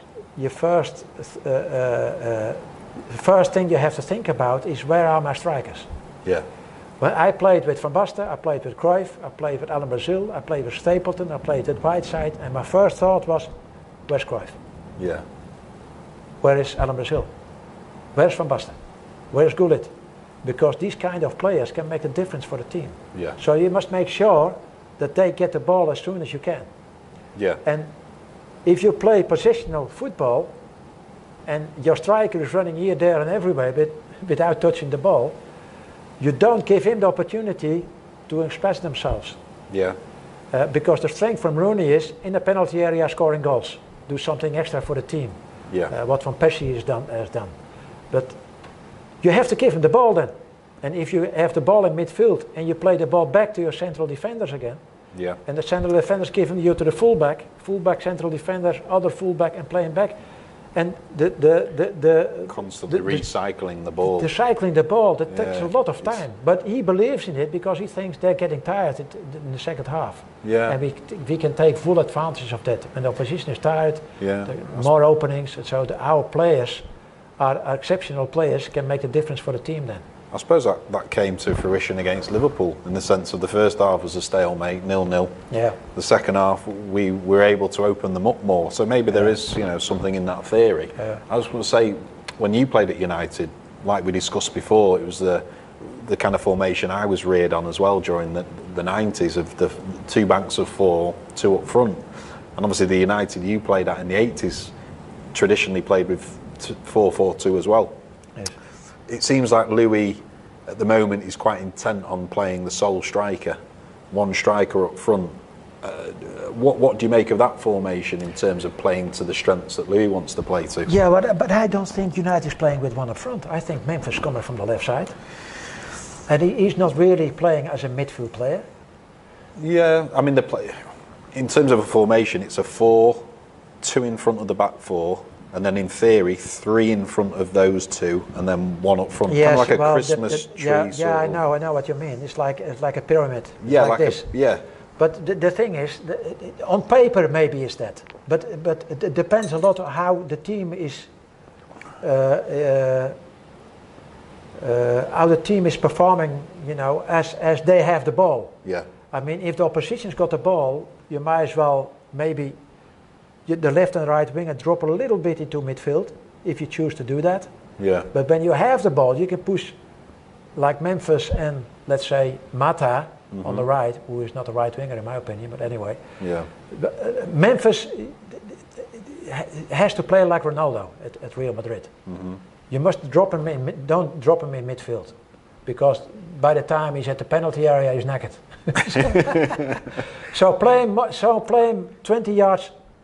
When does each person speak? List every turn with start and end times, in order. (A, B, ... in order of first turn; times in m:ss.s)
0:00.4-0:05.9 A
0:07.0-0:13.5 A
0:14.1-0:14.6 A
0:15.0-0:15.2 B
0:16.4-0:17.3 A
0:18.1-0:18.8 A
0:19.3-0:19.9 A
0:20.4-0:26.7 A
0:27.4-0:27.6 B
0:27.6-0:27.9 A
0:28.6-0:30.5 A
0:31.5-0:35.4 A
0:36.2-0:39.4 A
0:39.7-0:40.0 B
0:40.5-0:45.4 A
0:45.9-0:47.5 A
0:48.1-0:48.4 A
0:49.2-0:54.8 A
0:55.1-0:55.4 B
0:55.5-1:00.2 A
1:00.7-1:03.3 A
1:02.5-1:04.3 B
1:04.0-1:16.8 A
1:05.3-1:05.7 B
1:10.4-1:10.8 B
1:14.2-1:14.9 B
1:17.4-1:20.0 A
1:20.3-1:25.4 B
1:25.5-1:25.8 A
1:25.9-1:44.7 B
1:45.3-1:48.0 B
1:49.1-1:53.6 B
1:54.1-2:00.9 B
2:00.9-2:05.2 A
2:06.3-2:08.7 A
2:09.6-2:13.3 B
2:13.8-2:21.4 B
2:19.3-2:24.3 A
2:23.6-2:24.6 B
2:25.0-2:31.1 A
2:32.0-2:33.2 A
2:34.6-2:38.6 A
2:39.1-2:42.6 A
2:43.5-2:47.5 A
2:47.8-2:48.1 B
2:48.1-2:49.8 A
2:50.6-2:56.0 A
2:53.3-2:53.6 B
2:56.2-2:56.5 B
2:56.7-3:01.9 A
3:02.1-3:02.4 B
3:02.7-3:12.8 A